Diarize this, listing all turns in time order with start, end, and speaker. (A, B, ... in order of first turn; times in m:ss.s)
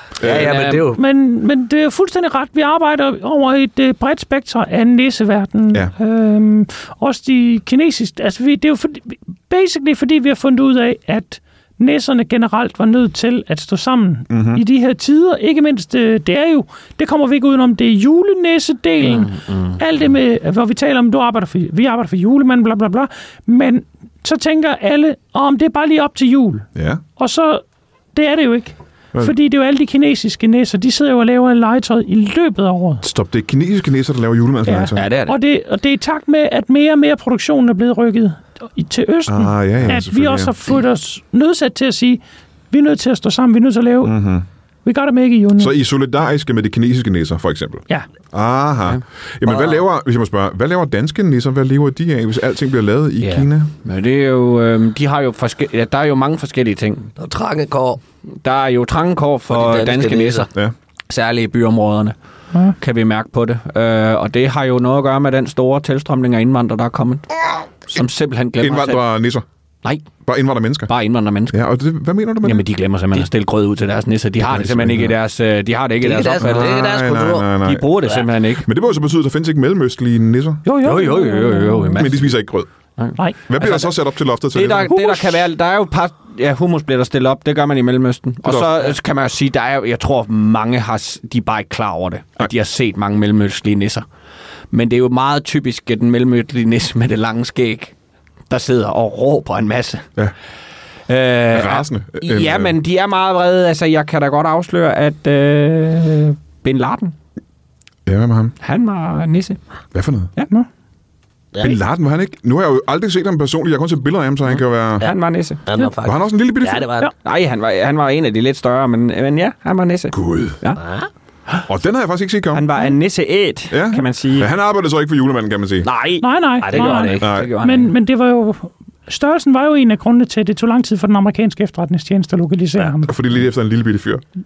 0:00.2-0:00.6 A
0:00.2-0:01.0 B
0:00.2-0:00.9 C
0:00.8-0:26.6 D
0:14.3-0:14.6 A
0:19.0-0:19.8 C
0:26.8-0:27.0 A
0:27.2-0:27.6 D
0:28.1-0:33.0 D
0:33.0-0:35.1 A
0:34.6-0:44.1 D
0:35.0-0:35.4 C
0:39.3-0:40.6 A
0:44.0-0:44.5 A
0:44.8-0:45.7 D
0:45.6-0:53.7 A
0:49.4-0:49.8 B
0:53.2-0:57.1 C
0:57.2-0:58.0 B
0:58.4-1:00.5 C
0:59.5-1:00.5 B
1:01.1-1:02.2 C
1:02.8-1:07.3 C
1:07.9-1:09.1 C
1:08.6-1:09.4 A
1:10.2-1:10.9 A
1:10.9-1:11.7 C
1:11.5-1:12.6 A
1:12.4-1:16.9 C
1:14.4-1:15.2 A
1:16.0-1:17.5 B
1:16.4-1:20.6 A
1:17.6-1:18.7 C
1:20.6-1:22.1 D
1:20.8-1:22.3 C
1:22.0-1:22.7 A
1:23.0-1:24.0 C
1:23.5-1:25.0 A
1:24.5-1:34.0 C
1:24.9-1:25.4 D
1:28.4-1:28.9 A
1:34.7-1:38.0 C
1:38.5-1:40.1 C
1:41.1-1:47.2 C
1:41.5-1:42.8 A
1:48.1-1:48.5 A
1:48.6-1:49.6 C
1:49.9-1:50.3 A
1:51.5-1:51.8 B
1:51.6-1:55.1 A
1:54.5-1:55.6 C
1:55.7-1:57.1 B
1:56.0-1:56.9 A
1:57.2-2:00.8 C
2:00.1-2:00.6 A
2:00.8-2:01.1 B
2:01.7-2:02.7 A
2:02.5-2:04.5 C
2:03.7-2:05.9 A
2:05.9-2:06.2 C
2:05.9-2:07.5 B
2:06.2-2:13.2 D
2:06.7-2:07.9 C
2:07.2-2:07.6 A
2:13.0-2:14.2 A